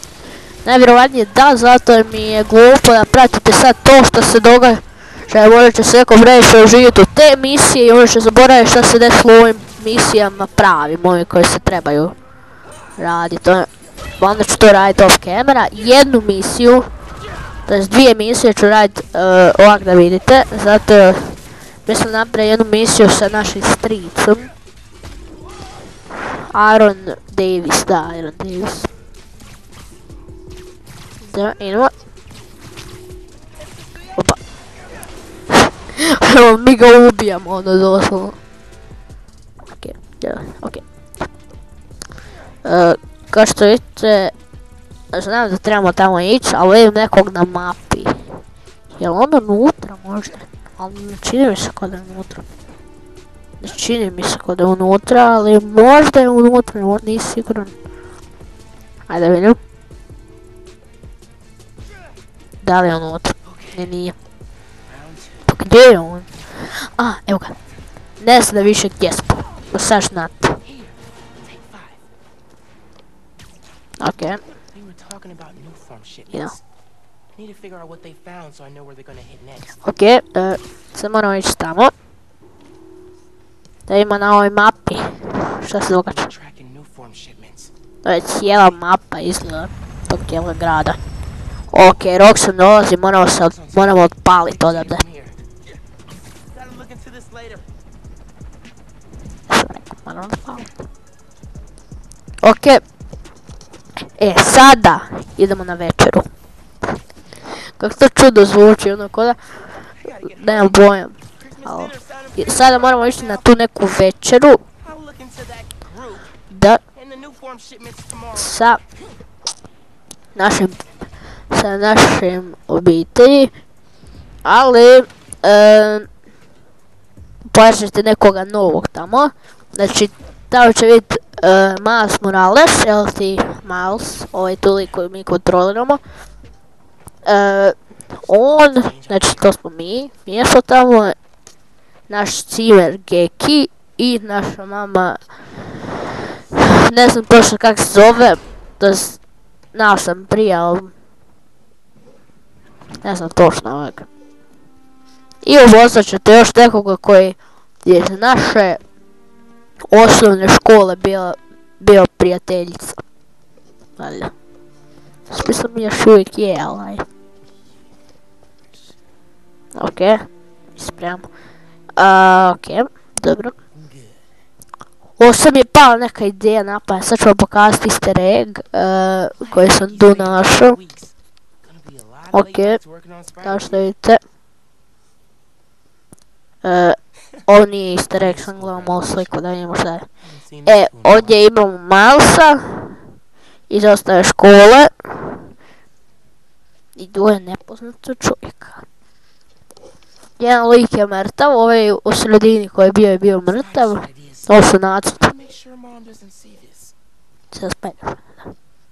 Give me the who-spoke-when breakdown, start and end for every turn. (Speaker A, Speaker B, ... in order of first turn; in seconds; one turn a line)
Speaker A: 0.6-12.1
Speaker A: 13.0-16.9
Speaker A: 17.7-24.5
Speaker A: 26.5-28.9
Speaker A: 31.2-31.9
Speaker B: 33.6-34.3
Speaker A: 35.5-38.4
Speaker A: 39.7-40.8
Speaker A: 42.6-44.3
Speaker A: 45.1-48.2
Speaker A: 49.0-52.4
Speaker A: 53.6-57.7
Speaker A: 59.1-59.6
Speaker A: 62.6-64.1
Speaker B: 63.4-63.9
Speaker B: 64.8-65.6
Speaker A: 65.5-67.5
Speaker A: 68.2-70.6
Speaker B: 70.6-72.0
Speaker A: 74.0-74.4
Speaker B: 74.1-76.6
Speaker B: 77.3-79.8
Speaker A: 79.8-81.9
Speaker A: 83.9-86.3
Speaker B: 86.0-87.7
Speaker A: 88.0-91.0
Speaker A: 91.7-95.0
Speaker B: 93.3-95.7
Speaker B: 96.5-97.6
Speaker A: 99.5-100.7
Speaker A: 102.4-102.8
Speaker A: 104.2-106.3
Speaker A: 107.7-109.4
Speaker B: 109.9-113.5
Speaker A: 110.2-114.6
Speaker B: 114.8-116.3
Speaker A: 116.5-116.8
Speaker B: 116.9-119.0
Speaker A: 118.3-118.8
Speaker A: 120.3-120.8
Speaker A: 121.5-123.5
Speaker A: 124.4-126.1
Speaker A: 127.5-136.0
Speaker A: 137.2-137.7
Speaker B: 138.1-139.5
Speaker A: 138.3-141.2
Speaker A: 142.1-145.2
Speaker A: 146.5-149.2
Speaker A: 149.7-150.9
Speaker A: 153.0-154.1
Speaker A: 155.4-158.8
Speaker A: 159.9-163.0
Speaker A: 164.0-164.3
Speaker A: 165.3-167.0
Speaker A: 169.8-170.2
Speaker A: 170.8-171.3
Speaker A: 172.0-173.6
Speaker B: 173.7-174.3
Speaker A: 175.2-180.8
Speaker B: 179.4-183.9
Speaker A: 182.3-182.8
Speaker A: 183.4-184.2
Speaker A: 186.6-190.1
Speaker B: 188.1-189.4
Speaker B: 190.2-191.4
Speaker A: 190.7-193.0
Speaker A: 193.7-195.4
Speaker A: 196.9-198.8
Speaker A: 200.4-205.2
Speaker B: 203.4-206.9
Speaker A: 207.5-208.5